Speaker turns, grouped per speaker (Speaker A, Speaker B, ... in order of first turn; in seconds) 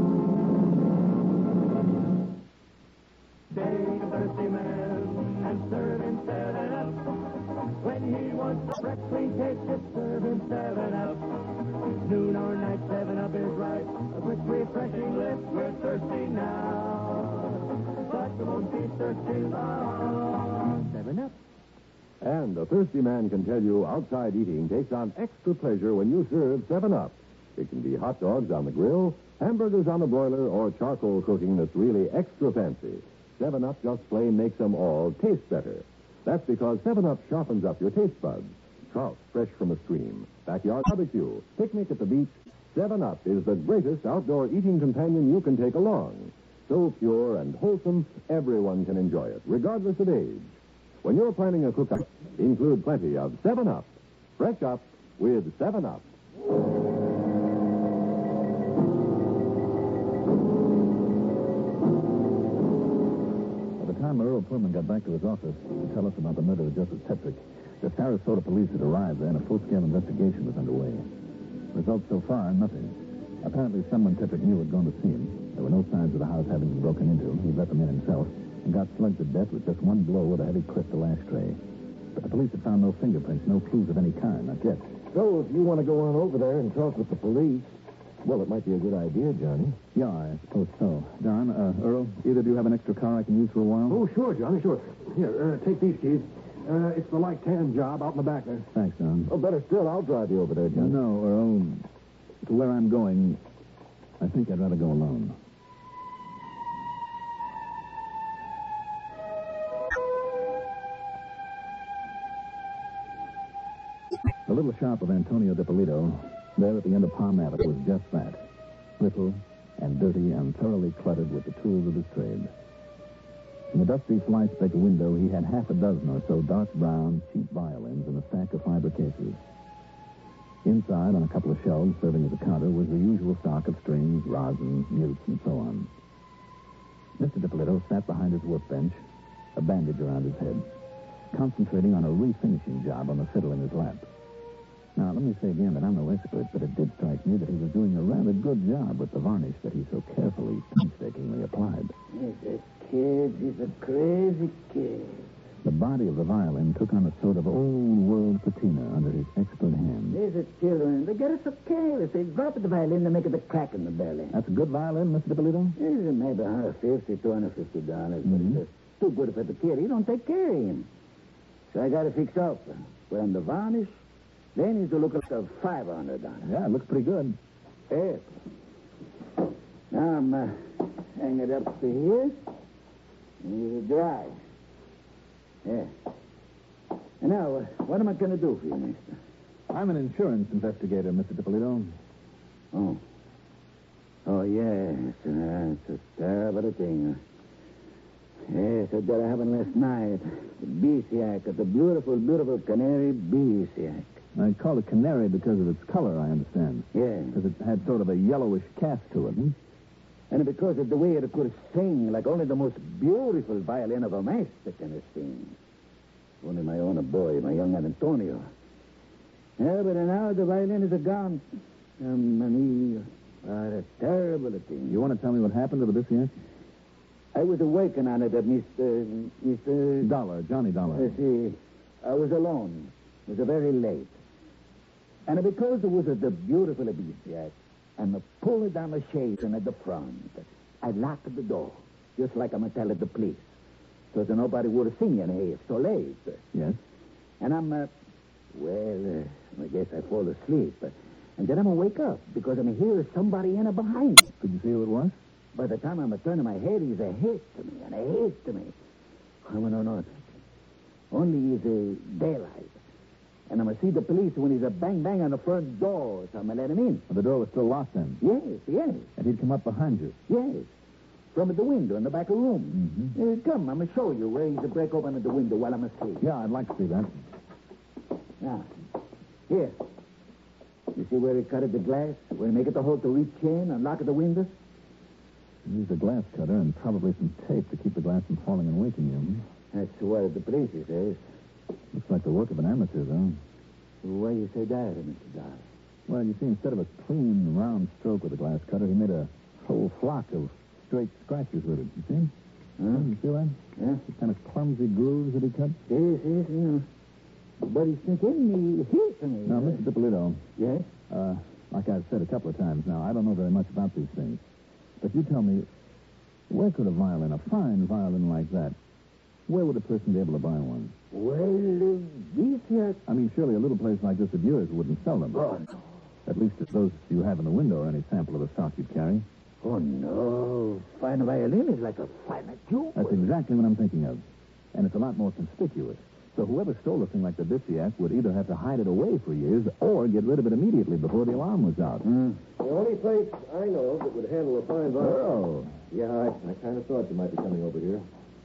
Speaker A: 3.5-6.9, 7.8-11.2, 12.0-17.2, 18.1-18.8, 19.4-20.1, 20.8-21.3, 93.9-98.7
Speaker B: 22.2-56.0
Speaker C: 63.8-71.1, 71.7-81.6, 82.1-84.9, 89.9-94.0, 98.7-99.3, 100.7-101.8, 102.4-103.4, 104.2-105.4, 114.5-118.4, 119.0-122.5, 123.7-129.4, 130.6-135.9, 137.2-139.0, 139.6-140.7, 141.3-144.1, 144.9-151.9, 155.6-160.2, 164.3-165.8, 168.2-168.6, 176.4-177.4, 189.7-192.0, 204.3-209.6, 224.9-226.3, 230.0-231.2, 246.5-246.8, 254.4-255.2, 267.1-268.2, 269.2-270.1, 272.7-273.1, 276.2-277.1, 285.6-289.4, 291.9-293.4, 296.1-302.3, 302.9-305.8, 309.4-310.4, 311.1-314.4, 315.0-315.7, 316.5-318.8, 319.5-320.9, 323.1-325.5, 326.3-329.2, 332.9-334.2, 334.7-342.0, 345.0-345.8
Speaker D: 85.1-89.8, 99.3-101.0, 342.6-345.4, 345.9-348.1
Speaker E: 152.1-155.2, 160.1-164.3, 165.8-170.9, 171.7-174.0, 174.5-176.5, 177.9-178.3, 179.9-182.4, 183.4-184.4, 185.6-185.9, 187.2-189.2, 192.7-193.0, 194.2-197.2, 198.5-204.2, 206.9-207.4, 210.3-215.6, 216.4-218.5, 219.6-221.4, 222.0-225.0, 227.3-230.1, 230.9-234.2, 235.3-243.5, 244.1-246.4, 247.4-247.9, 248.5-254.3, 255.5-258.7, 259.4-260.2, 261.1-262.8, 263.5-267.1, 268.2-269.1, 270.3-270.7, 271.3-276.2, 278.4-278.7, 279.5-279.8, 280.9-284.5, 289.7-291.2, 294.0-295.6, 302.8-303.1, 303.8-304.0, 305.9-306.9, 307.6-309.8, 310.6-310.9, 321.1-323.0, 325.3-325.7, 329.6-333.3, 342.0-342.4